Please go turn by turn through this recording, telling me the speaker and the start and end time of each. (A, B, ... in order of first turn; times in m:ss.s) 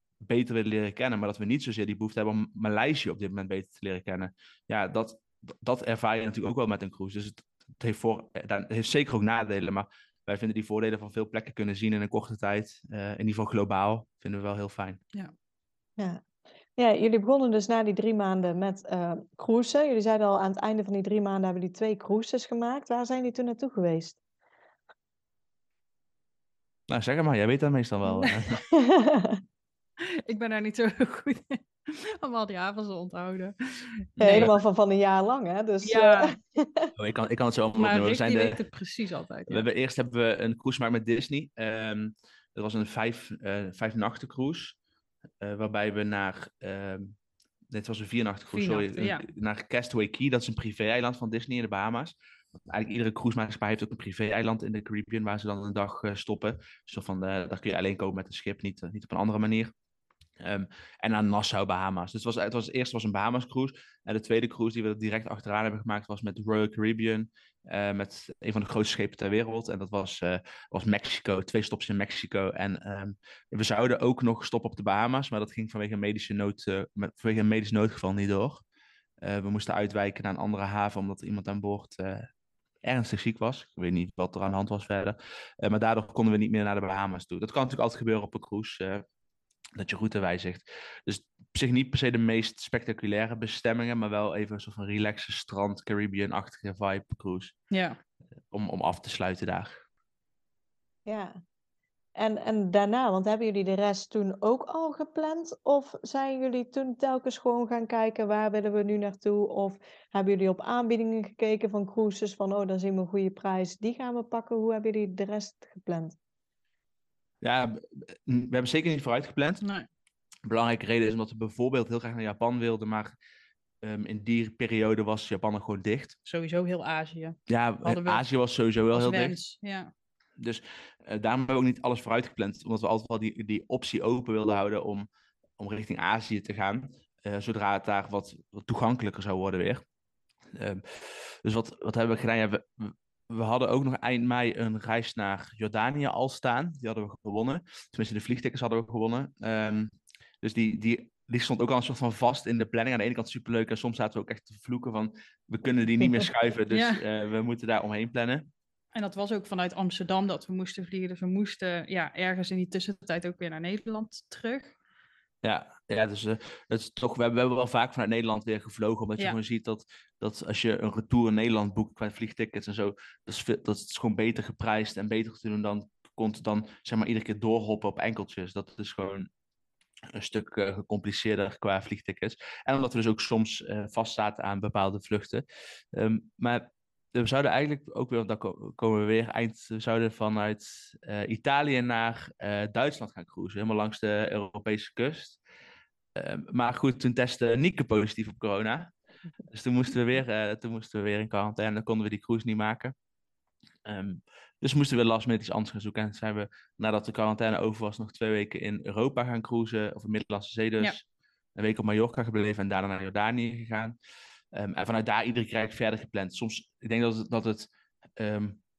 0:00.2-0:15.0 A
0:16.8-0:24.2 B
0:26.9-0:28.6 A
0:28.7-0:29.4 B
0:30.3-0:34.5 C
0:34.2-0:36.9 B
0:34.2-0:34.5 A
0:35.8-0:36.4 C
0:37.0-0:38.6 A
0:37.8-0:39.7 C
0:39.5-0:44.8 A
0:45.4-0:47.2 A
0:47.7-0:52.1 A
0:48.5-0:49.2 C
0:52.7-0:59.7 A
1:00.4-1:18.6 A
1:19.2-1:22.3 A
1:22.8-1:29.0 A
1:29.8-1:37.6 A
1:37.7-1:38.0 C
1:38.5-1:39.8 A
1:41.1-1:41.4 B
1:42.2-1:56.2 B
1:57.4-1:59.6 A
1:59.6-1:59.9 C
2:00.5-2:03.1 A
2:03.8-2:06.2 A
2:06.3-2:08.2 C
2:07.5-2:09.4 A
2:08.9-2:09.9 C
2:10.4-2:15.1 A
2:15.6-2:19.8 A
2:20.6-2:29.9 A
2:30.4-2:38.5 A
2:36.7-2:37.0 C
2:38.9-2:44.7 C
2:45.4-2:59.3 A
3:00.1-3:15.4 A
3:16.2-3:18.9 A
3:19.5-3:22.9 A
3:23.8-3:31.0 A
3:31.6-3:34.0 A
3:34.5-3:38.6 A